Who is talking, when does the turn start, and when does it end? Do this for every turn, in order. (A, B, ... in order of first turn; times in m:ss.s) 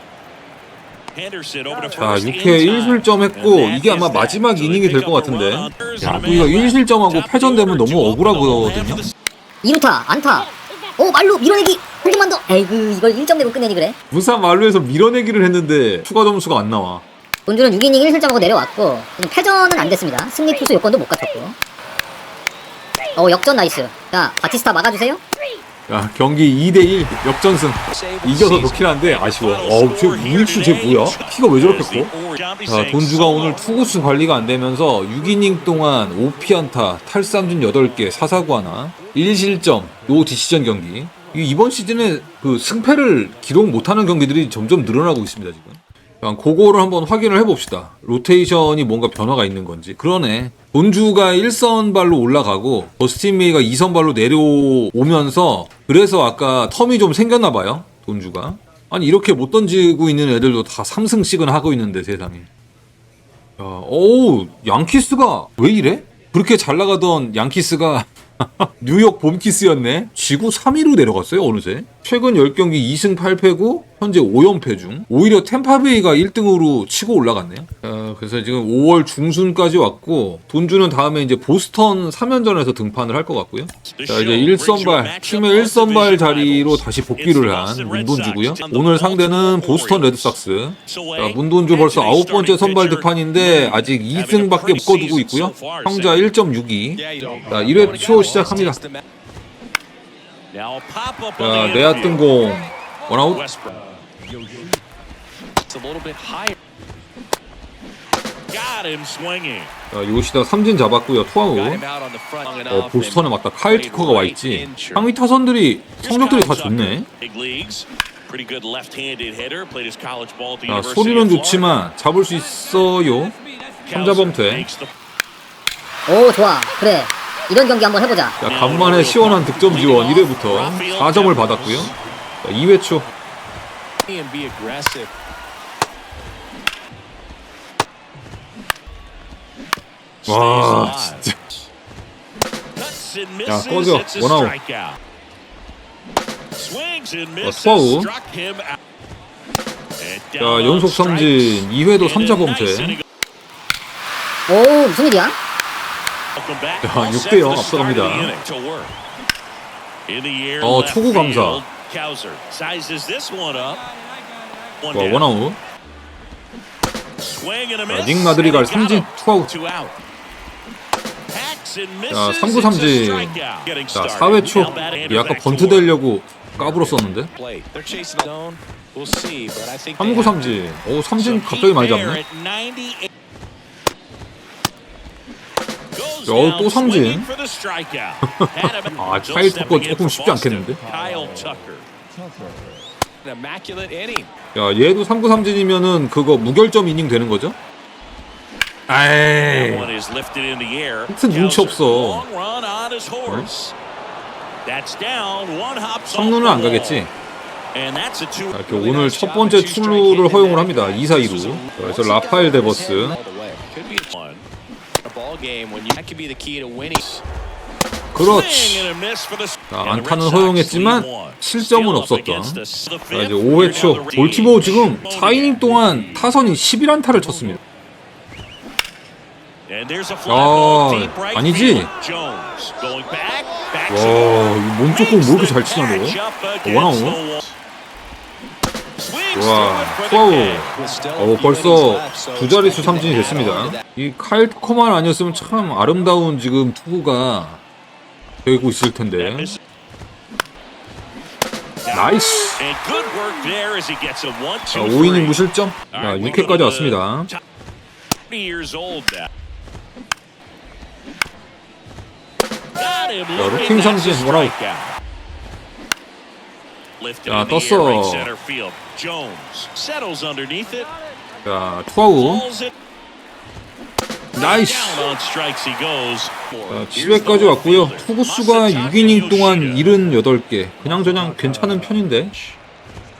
0:01.1-0:09.1 A
0:01.9-0:09.0 B
0:09.6-0:14.0 C
0:14.1-0:17.0 B
0:17.5-0:21.5 C
0:23.1-0:25.2 C
0:25.9-0:32.1 B
0:27.9-0:28.9 D
0:29.0-0:33.6 A
0:32.7-1:02.5 B
1:03.6-1:38.8 B
1:23.9-1:30.4 A
1:30.9-1:36.3 A
1:37.0-1:39.0 D
1:40.5-1:42.3 A
1:41.4-1:43.4 B
1:43.3-1:43.8 A
1:45.7-1:46.6 D
1:48.5-1:49.7 A
1:49.9-1:51.8 B
1:51.5-1:55.1 D
1:52.7-1:57.1 B
1:56.0-2:01.8 A
2:00.7-2:03.3 B
2:03.8-2:04.9 A
2:03.9-2:04.6 B
2:06.1-2:08.4 C
2:08.4-2:11.9 A
2:08.4-2:13.1 B
2:14.1-2:15.1 D
2:20.2-2:21.2 A
2:20.3-2:21.4 B
2:22.8-2:25.0 A
2:23.5-2:24.5 B
2:26.6-2:28.8 A
2:27.4-2:28.1 B
2:30.0-2:33.0 A
2:30.4-2:33.0 B
2:34.5-2:35.4 C
2:36.4-2:38.9 A
2:36.8-2:38.3 B
2:40.1-2:43.8 A
2:40.6-2:41.6 B
2:44.8-2:45.2 A
2:44.9-2:45.6 B
2:47.2-2:50.0 A
2:47.9-2:49.5 B
2:51.3-2:55.9 A
2:52.1-2:53.4 B
2:53.9-2:57.3 B
2:54.5-2:55.4 D
2:56.6-3:00.6 D
3:00.0-3:02.2 B
3:01.2-3:03.1 A
3:05.9-3:11.9 A
3:06.3-3:07.3 B
3:08.2-3:10.8 B
3:13.2-3:14.3 D
3:14.5-3:17.6 B
3:18.9-3:19.9 B
3:19.5-3:23.7 A
3:21.1-3:22.2 B
3:24.6-3:27.1 A
3:26.1-3:27.1 B
3:27.7-3:28.6 A
3:28.5-3:33.2 B
3:28.7-3:34.1 D
3:34.1-3:34.4 A
3:35.0-3:37.2 D
3:38.1-3:38.9 B
3:38.2-3:46.3 A
3:39.7-3:47.6 B
3:47.3-3:47.6 A
3:49.7-3:57.5 A
3:50.3-3:51.9 B
3:53.9-3:57.2 B
3:59.0-4:00.7 A
3:59.3-4:07.6 B
4:00.7-4:03.8 D
4:02.9-4:03.5 A
4:08.4-4:09.5 B
4:09.2-4:09.6 A
4:11.8-4:15.4 A
4:11.9-4:12.6 B
4:14.7-4:17.3 B
4:15.9-4:17.4 A
4:18.3-4:19.3 A
4:22.8-4:25.0 A
4:23.4-4:24.5 B
4:27.0-4:30.9 A
4:27.3-4:28.3 B
4:31.4-4:32.4 B
4:32.2-4:32.7 A
4:34.4-4:35.1 B
4:34.4-4:39.9 A
4:36.7-4:42.3 B